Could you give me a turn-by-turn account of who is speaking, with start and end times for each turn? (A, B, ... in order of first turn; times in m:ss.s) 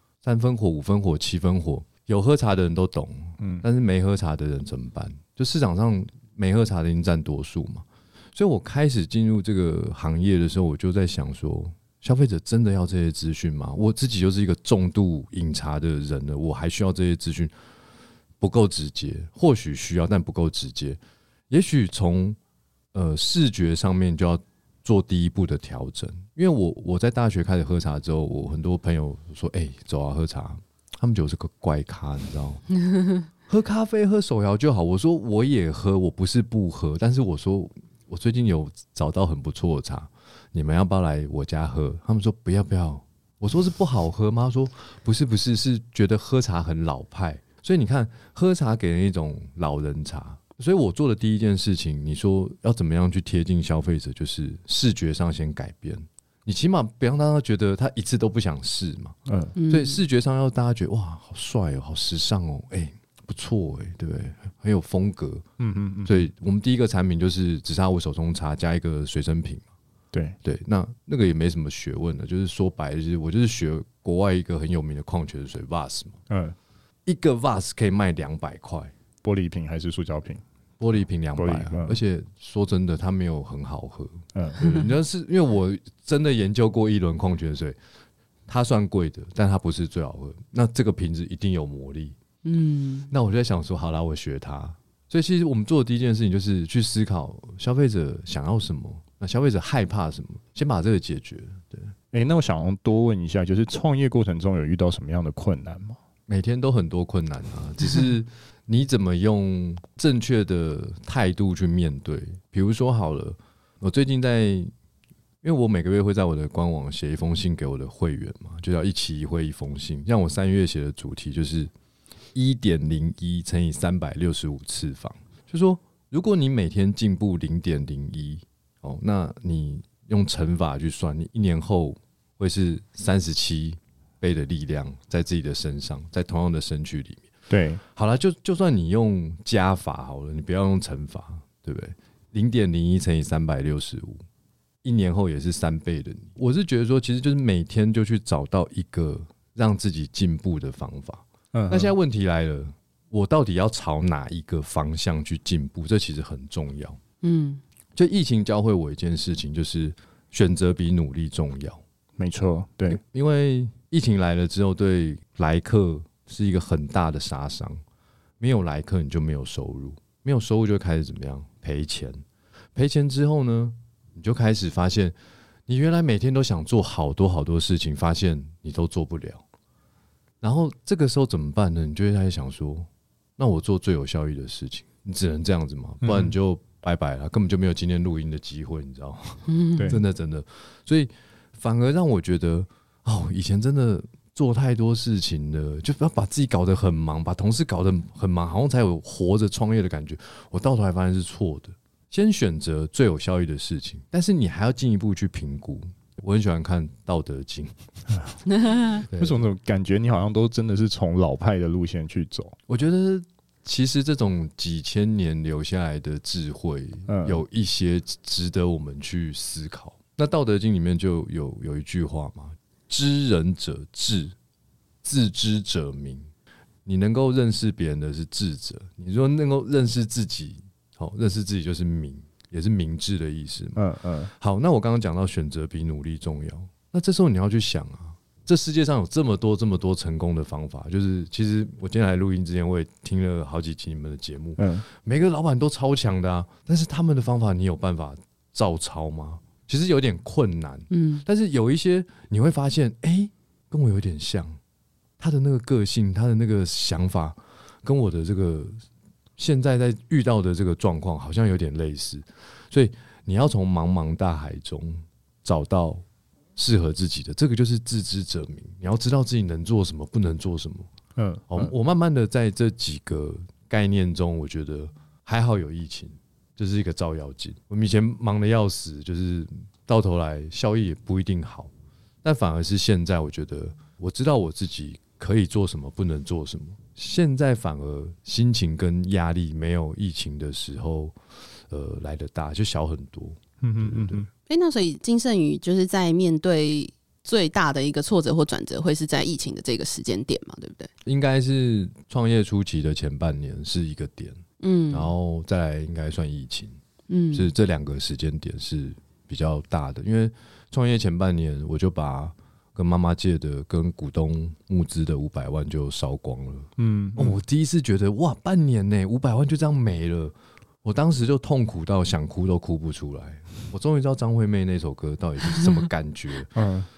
0:00.2-0:17.5 A
0:18.4-0:22.4 A
0:22.9-0:32.6 A
0:33.5-0:59.2 A
0:59.3-0:59.6 B
0:59.6-1:00.0 C
0:59.7-1:05.5 A
1:05.6-1:06.2 B
1:06.0-1:09.6 A
1:10.1-1:10.4 B
1:10.4-1:16.2 A
1:16.3-1:16.6 B
1:17.1-1:18.9 A
1:19.2-1:20.4 B
1:20.8-1:27.8 A
1:21.4-1:22.0 B
1:24.3-1:24.6 B
1:28.5-1:32.2 A
1:32.4-1:33.1 C
1:33.1-1:41.9 A
1:42.1-1:46.0 B
1:46.3-1:54.7 A
1:55.4-2:01.7 A
2:02.3-2:17.3 A
2:17.5-2:17.8 B
2:18.0-2:24.2 A
2:24.8-2:37.0 A
2:31.5-2:32.0 B
2:37.2-2:37.6 C
2:38.0-2:41.8 A
2:42.2-2:43.0 B
2:42.9-2:47.8 A
2:48.4-2:52.2 A
2:52.8-2:55.2 A
2:55.7-2:59.4 A
3:00.4-3:28.2 A
3:06.0-3:06.4 B
3:09.5-3:10.0 C
3:09.8-3:10.0 B
3:28.6-3:29.0 C
3:29.0-3:29.4 A
3:29.2-3:32.6 B
3:32.7-3:44.4 A
3:37.1-3:37.4 B
3:45.0-3:46.3 A
3:46.9-4:14.6 A
3:53.8-3:54.3 B
4:04.6-4:04.8 B
4:10.9-4:11.2 C
4:15.2-4:18.8 A
4:19.4-4:26.0 A
4:26.6-4:30.9 A
4:31.2-4:31.7 B
4:31.5-4:41.7 A
4:42.2-4:51.2 A
4:51.7-4:54.3 A
4:53.6-4:54.3 B
4:54.5-5:00.9 C
5:01.1-5:06.8 A
5:04.6-5:05.1 C
5:07.1-5:07.5 C
5:07.3-5:26.5 A
5:16.8-5:17.4 B
5:26.5-5:26.9 B